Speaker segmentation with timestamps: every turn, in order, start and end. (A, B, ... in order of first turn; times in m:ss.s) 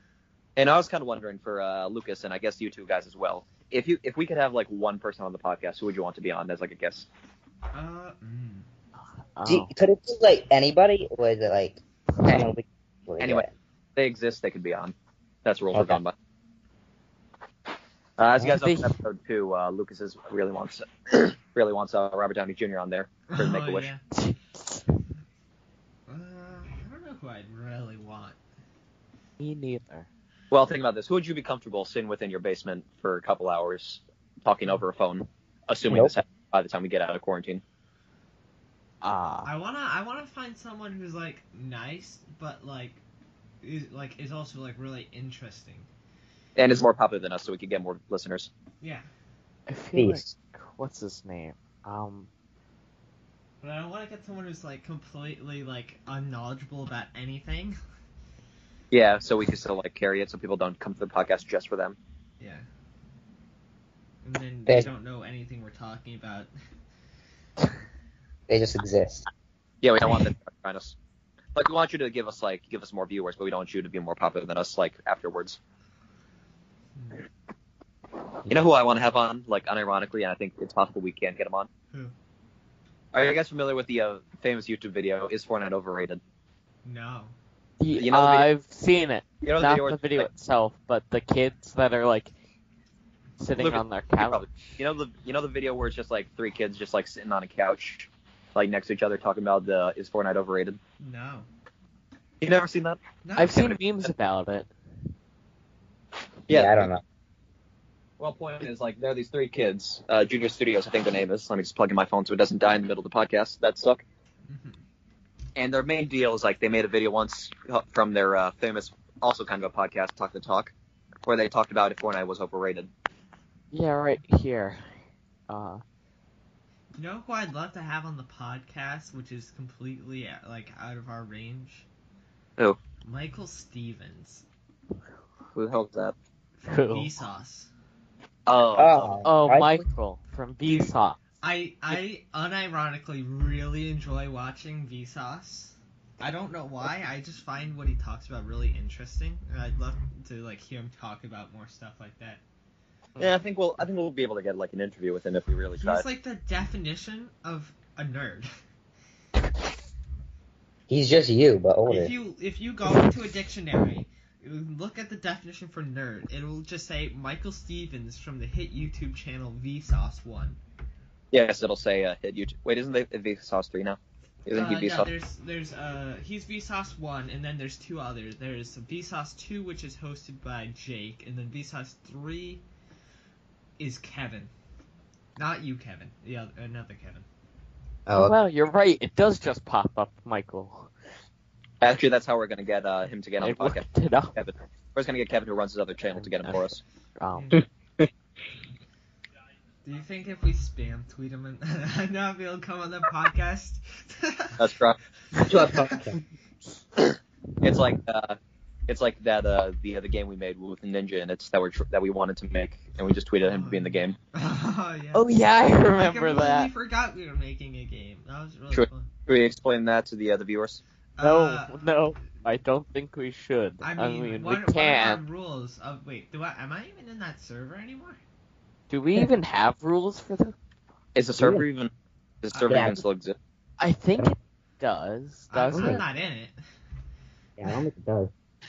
0:00.6-0:07.1 A
0:07.7-0:08.7 B
0:09.4-0:09.7 C
0:09.4-0:13.5 D
0:13.2-0:16.1 A
0:15.7-0:16.0 D
0:18.2-0:23.9 A
0:18.4-0:18.9 C
0:23.3-0:24.0 B
0:24.1-0:24.8 C
0:26.1-0:28.4 B
0:29.4-0:30.1 C
0:30.5-0:37.6 A
0:35.9-0:36.1 D
0:39.0-0:39.5 C
0:39.4-0:43.0 B
0:43.6-0:45.9 B
0:46.6-0:48.5 A
0:48.8-0:49.1 B
0:49.7-0:52.3 C
0:49.9-0:50.3 D
0:53.6-0:57.8 B
0:58.9-1:02.0 A
1:02.4-1:02.6 B
1:04.2-1:06.5 B
1:08.5-1:09.3 D
1:09.8-1:11.0 A
1:11.5-1:15.6 A
1:17.0-1:17.2 B
1:18.5-1:21.7 A
1:23.1-1:26.2 A
1:26.8-1:27.3 B
1:27.8-1:32.3 C
1:27.9-1:28.5 A
1:29.4-1:30.3 A
1:33.4-1:34.8 C
1:33.6-1:40.8 A
1:41.0-1:41.5 B
1:42.4-1:43.0 A
1:43.2-1:43.8 B
1:43.4-1:44.7 C
1:43.6-1:44.1 A
1:46.5-1:46.9 A
1:46.5-1:47.0 D
1:48.2-1:54.0 A
1:54.5-1:54.8 B
1:55.6-2:00.7 A
2:01.2-2:02.9 A
2:03.7-2:05.8 C
2:07.0-2:11.8 B
2:13.0-2:14.4 B
2:15.5-2:16.2 A
2:16.6-2:17.7 B
2:16.6-2:17.1 C
2:18.5-2:19.2 A
2:18.8-2:19.8 D
2:19.2-2:21.2 C
2:21.4-2:32.4 B
2:33.2-2:36.0 A
2:35.8-2:38.5 B
2:40.9-2:42.1 D
2:41.9-2:50.6 B
2:51.3-2:55.1 A
2:54.5-3:02.6 B
3:03.8-3:04.5 B
3:05.4-3:07.2 B
3:08.1-3:08.4 D
3:08.2-3:10.9 C
3:11.8-3:16.8 A
3:13.4-3:14.4 C
3:16.1-3:16.6 C
3:17.2-3:17.5 C
3:17.3-3:17.6 B
3:17.5-3:18.1 D
3:19.8-3:24.6 B
3:24.6-3:25.0 A
3:25.3-3:26.1 B
3:25.4-3:26.2 D
3:27.6-3:28.4 A
3:28.9-3:34.2 A
3:33.4-3:35.2 B
3:35.1-3:36.7 C
3:36.0-3:39.1 B
3:38.7-3:40.8 A
3:41.2-3:41.9 B
3:41.2-3:45.2 C
3:43.8-3:48.2 B
3:48.9-3:50.5 C
3:51.1-3:51.9 A
3:51.3-3:51.6 D
3:52.4-3:53.4 A
3:52.5-3:53.0 B
3:52.7-3:53.0 D
3:53.8-3:56.0 C
3:55.5-3:56.6 B
3:55.7-3:56.0 D
3:57.6-3:58.3 D